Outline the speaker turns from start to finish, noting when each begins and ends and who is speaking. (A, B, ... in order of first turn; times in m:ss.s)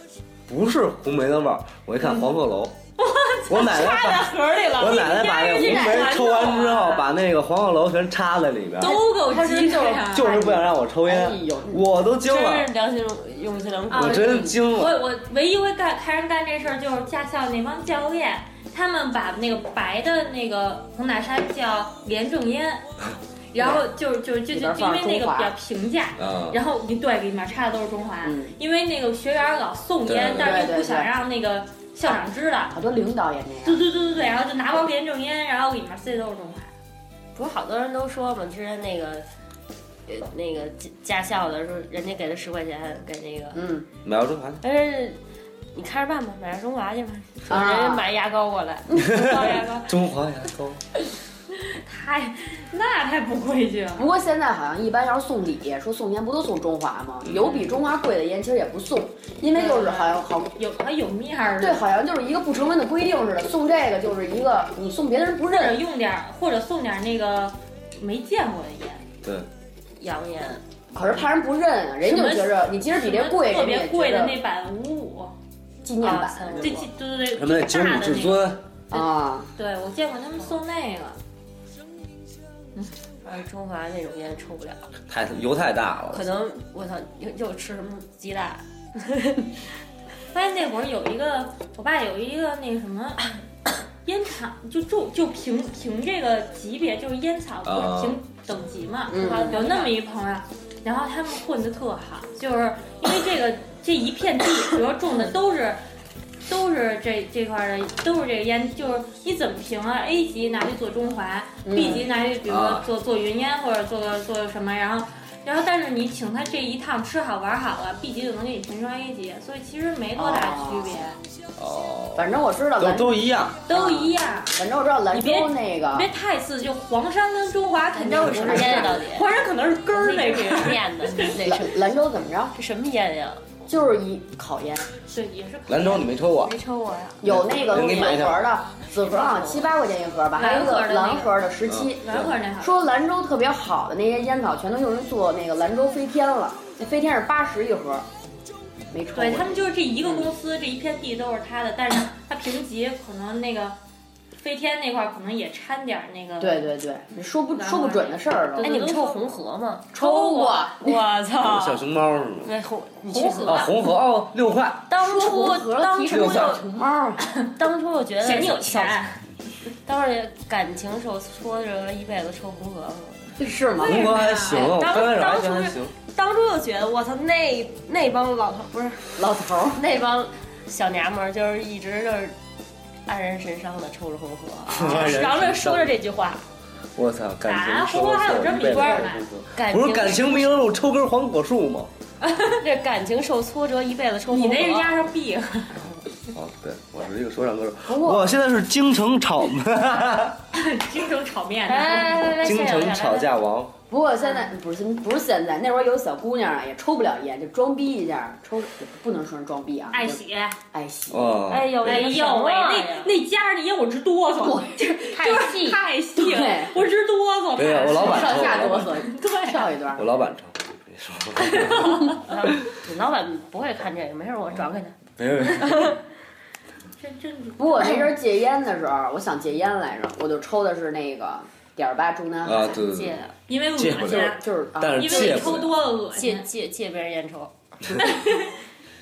0:00.5-0:02.8 A
0:03.0-0:07.0 B
0:03.5-0:09.0 A
0:03.8-0:07.0 C
0:05.4-0:06.2 D
0:08.8-0:11.9 D
0:08.8-0:10.4 B
0:10.1-0:12.7 A
0:12.2-0:14.6 C
0:13.9-0:15.0 A
0:13.9-0:22.8 B
0:23.5-0:32.7 B
0:23.6-0:23.8 D
0:24.5-0:25.5 D
0:26.2-0:26.6 A
0:28.2-0:28.6 D
0:30.1-0:30.7 A
0:30.4-0:31.1 D
0:32.7-0:33.9 D
0:33.6-0:36.7 B
0:37.4-0:39.3 C
0:40.1-0:43.7 C
0:43.5-0:43.9 D
0:44.0-0:44.6 A
0:44.6-0:45.2 C
0:45.7-0:49.9 C
0:47.5-0:48.1 D
0:48.9-0:49.4 D
0:49.1-0:50.8 A
0:51.6-0:54.1 B
0:54.0-1:00.5 D
0:57.4-0:57.8 B
0:59.5-1:02.0 B
1:01.6-1:05.8 D
1:05.6-1:09.1 B
1:09.2-1:09.5 A
1:10.0-1:10.6 C
1:10.9-1:14.4 D
1:12.0-1:15.3 B
1:15.8-1:16.9 D
1:16.0-1:16.8 C
1:16.6-1:21.2 B
1:17.3-1:18.6 A
1:18.9-1:19.5 D
1:23.2-1:24.9 C
1:25.1-1:26.3 A
1:26.1-1:29.5 C
1:30.3-1:33.3 B
1:34.0-1:45.8 B
1:37.6-1:38.2 A
1:39.1-1:39.6 D
1:39.1-1:40.0 C
1:46.5-2:01.2 B
1:51.6-1:52.1 D
1:52.4-1:52.8 A
2:00.2-2:01.1 D
2:01.6-2:03.6 A
2:02.2-2:06.1 D
2:03.7-2:04.6 B
2:05.1-2:11.4 B
2:08.0-2:09.0 D
2:08.0-2:09.3 C
2:09.9-2:11.9 C
2:11.4-2:12.6 D
2:12.6-2:13.4 C
2:13.7-2:14.9 D
2:15.1-2:16.1 B
2:15.7-2:16.6 A
2:16.4-2:17.2 C
2:17.2-2:28.1 D
2:17.2-2:18.5 A
2:19.0-2:19.7 C
2:20.4-2:21.3 B
2:21.7-2:22.0 A
2:21.9-2:22.8 B
2:28.9-2:30.3 D
2:29.2-2:33.8 B
2:34.4-2:36.6 B
2:36.4-2:38.7 D
2:37.6-2:39.2 B
2:38.6-2:40.0 C
2:39.9-2:41.0 D
2:40.0-2:40.7 B
2:40.8-2:41.9 C
2:41.4-2:42.5 A
2:42.4-2:43.7 C
2:43.1-2:43.7 D
2:43.1-2:43.6 B
2:43.4-2:44.9 A
2:44.9-2:46.7 C
2:45.0-2:47.2 D
2:46.1-2:46.6 A
2:47.5-2:49.0 C
2:48.2-2:49.2 B
2:49.8-2:53.4 C
2:53.4-2:54.1 D
2:53.8-2:55.9 A
2:53.8-2:54.7 B
2:54.0-3:02.4 C
2:59.2-2:59.8 D
3:03.1-3:06.4 C
3:04.7-3:06.0 A
3:07.0-3:11.9 A
3:07.5-3:09.3 B
3:08.8-3:09.0 D
3:09.5-3:10.7 C
3:12.2-3:12.6 B
3:12.6-3:15.0 C
3:14.3-3:15.9 B
3:16.3-3:20.4 A
3:17.9-3:18.3 D
3:20.5-3:22.4 B
3:21.7-3:23.3 C
3:22.4-3:23.7 A
3:23.9-3:30.2 D
3:29.9-3:30.6 B
3:30.7-3:31.4 D
3:31.1-3:32.1 A
3:31.5-3:33.1 C
3:31.8-3:39.6 B
3:34.4-3:36.8 D
3:37.6-3:39.0 A
3:37.8-3:40.1 D
3:40.0-3:42.1 A
3:41.4-3:42.3 B
3:42.1-3:45.0 C
3:45.2-3:46.0 A
3:47.0-3:48.1 B
3:47.6-3:52.8 D
3:52.4-3:55.8 A
3:52.7-3:53.3 C
3:53.5-3:56.5 B
3:54.0-3:55.6 D
3:56.1-3:57.5 C
3:58.0-3:58.5 B